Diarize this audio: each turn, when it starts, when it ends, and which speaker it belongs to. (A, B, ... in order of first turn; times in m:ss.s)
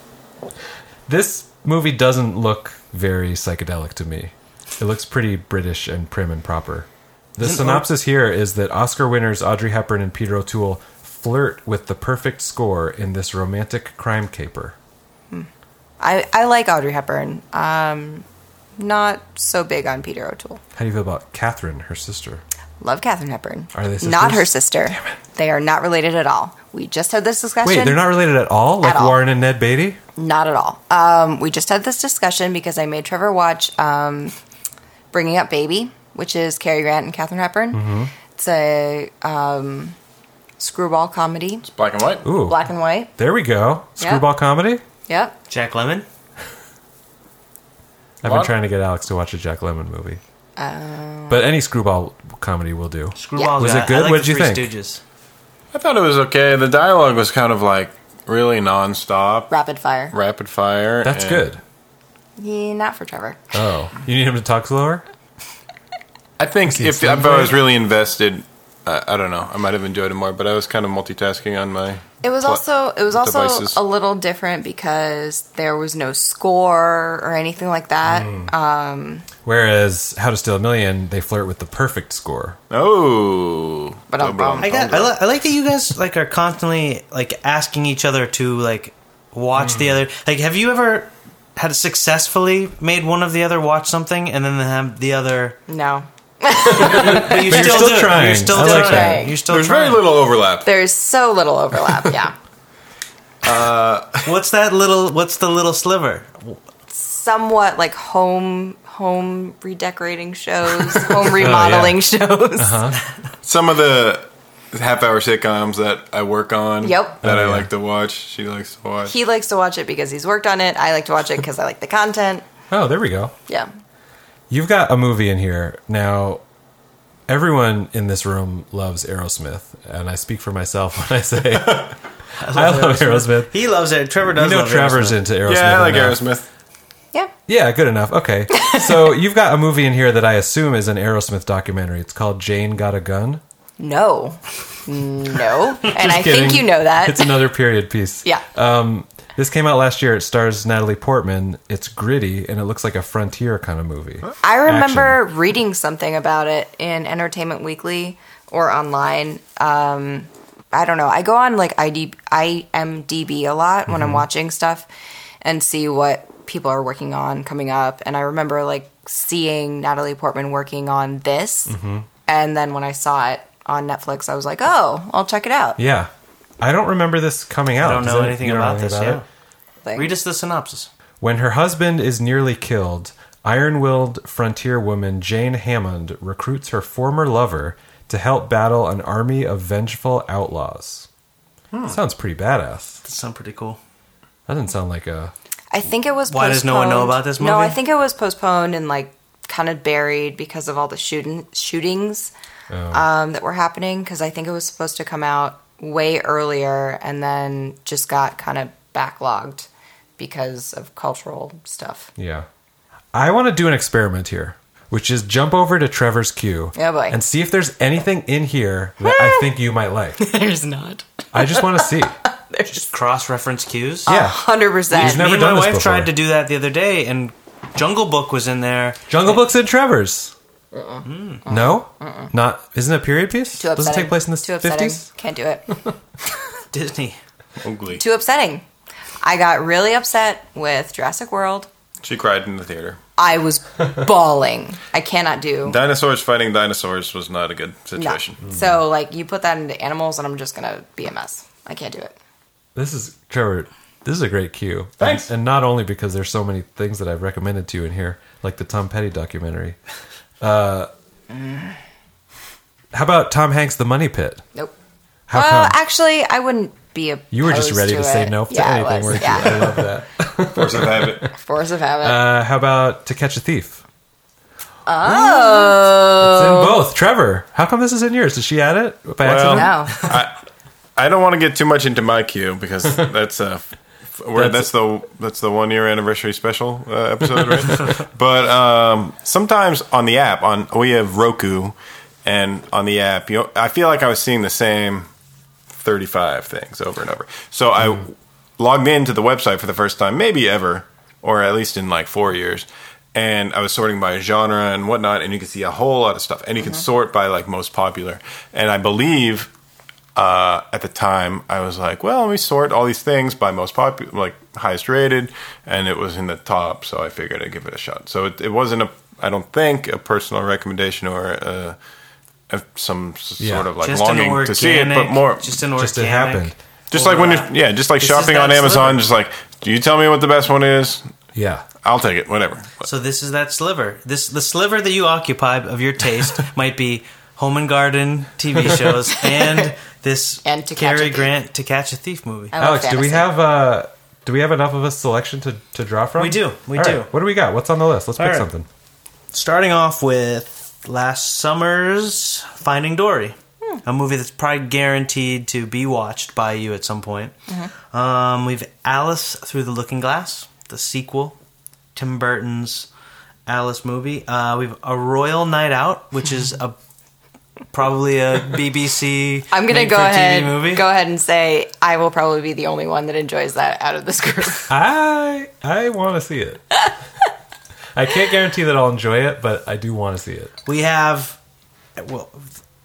0:01.1-0:14.8 A
0:07.4-0:07.9 B
0:16.0-0:18.2 C
0:18.8-0:20.6 C
0:20.7-0:22.4 A
0:22.8-0:28.2 C
0:23.7-0:24.5 A
0:27.6-0:30.0 A
0:28.8-0:29.2 C
0:30.2-0:34.3 C
0:35.1-0:40.0 C
0:37.7-0:38.1 A
0:40.6-0:41.6 C
0:41.6-0:42.2 D
0:42.2-0:44.8 A
0:42.3-0:43.1 C
0:44.0-0:44.2 C
0:45.1-0:45.4 C
0:45.5-0:46.0 B
0:48.2-0:50.2 A
0:48.2-0:48.5 D
0:50.6-0:51.4 C
0:51.3-0:54.7 A
0:53.2-0:55.0 B
0:55.7-0:59.5 D
0:59.5-1:00.1 C
1:00.1-1:01.5 D
1:01.0-1:01.6 A
1:02.4-1:03.4 C
1:03.5-1:05.0 A
1:06.4-1:13.8 D
1:06.7-1:07.6 A
1:12.2-1:19.3 C
1:18.0-1:18.5 A
1:19.4-1:22.6 A
1:22.7-1:25.2 D
1:24.1-1:24.7 C
1:24.6-1:35.6 B
1:29.6-1:30.0 A
1:35.7-1:37.9 C
1:36.7-1:39.3 A
1:36.7-1:40.2 B
1:38.5-1:39.4 C
1:39.5-1:40.7 D
1:40.6-1:42.3 C
1:43.4-1:44.3 D
1:44.2-1:46.6 B
1:46.9-1:52.9 C
1:51.2-1:52.0 A
1:52.6-1:53.0 A
1:53.4-1:59.1 D
1:56.8-1:57.2 C
1:57.2-1:57.7 A
1:59.0-2:02.4 C
2:02.7-2:03.3 A
2:04.5-2:06.4 A
2:07.3-2:13.5 A
2:12.4-2:15.2 B
2:14.3-2:16.2 A
2:15.4-2:16.5 D
2:17.5-2:23.4 A
2:18.5-2:18.9 C
2:23.8-2:27.4 C
2:25.8-2:35.2 A
2:34.4-2:44.9 C
2:43.9-2:44.2 A
2:45.4-2:51.7 C
2:51.7-2:52.1 A
2:52.3-2:55.8 C
2:55.8-2:56.1 A
2:56.6-2:59.2 A
2:57.8-2:59.2 B
2:59.8-3:00.1 C
3:00.0-3:00.9 B
3:01.2-3:11.1 A
3:11.9-3:13.0 A
3:13.0-3:13.8 B
3:14.5-3:15.3 A
3:15.7-3:22.3 C
3:16.3-3:17.8 B
3:22.7-3:23.0 A
3:22.9-3:32.1 C
3:32.2-3:32.5 A
3:33.1-3:40.2 A
3:36.8-3:37.2 C
3:39.0-3:39.4 C
3:40.2-3:42.9 C
3:41.3-3:42.2 A
3:42.7-3:44.1 B
3:44.0-3:45.2 C
3:44.0-3:46.1 A
3:45.0-3:49.2 B
3:49.1-3:50.3 A
3:50.7-3:52.3 C
3:51.0-3:51.4 B
3:51.5-3:55.0 A
3:53.6-3:55.8 C
3:56.7-3:57.2 B
3:57.6-3:58.0 D
3:58.0-3:58.6 C
3:59.2-4:01.7 C
4:02.0-4:03.0 D
4:03.2-4:05.8 C
4:05.6-4:08.4 D
4:08.0-4:12.1 C
4:12.7-4:19.8 A
4:15.0-4:15.3 D
4:20.4-4:20.9 A
4:21.3-4:21.7 C
4:22.9-4:24.4 A
4:25.3-4:25.8 A
4:25.3-4:29.8 C
4:27.3-4:31.3 A
4:29.4-4:29.6 D
4:30.4-4:31.3 D
4:31.3-4:32.2 C
4:32.0-4:33.8 A
4:34.8-4:36.8 C
4:35.0-4:39.9 A
4:39.2-4:40.4 D
4:39.5-4:40.1 C
4:41.0-4:55.1 D
4:44.3-4:44.7 A
4:55.7-5:09.5 D
5:10.1-5:21.8 D
5:22.5-5:25.5 D
5:23.4-5:23.7 A
5:23.8-5:29.0 B
5:25.8-5:26.6 A
5:26.9-5:31.1 D
5:31.3-5:31.6 A
5:31.8-5:32.9 D
5:32.8-5:42.5 B
5:40.4-5:41.3 C
5:42.5-5:43.3 C
5:42.6-5:48.6 A
5:46.2-5:47.1 B
5:48.2-5:48.5 B
5:49.3-5:57.4 B
5:57.9-6:01.4 B
6:01.9-6:02.9 B
6:03.5-6:06.8 B
6:07.7-6:10.8 B
6:09.5-6:14.7 C
6:14.7-6:16.8 A
6:17.9-6:20.5 A
6:20.6-6:21.4 B
6:22.0-6:22.5 B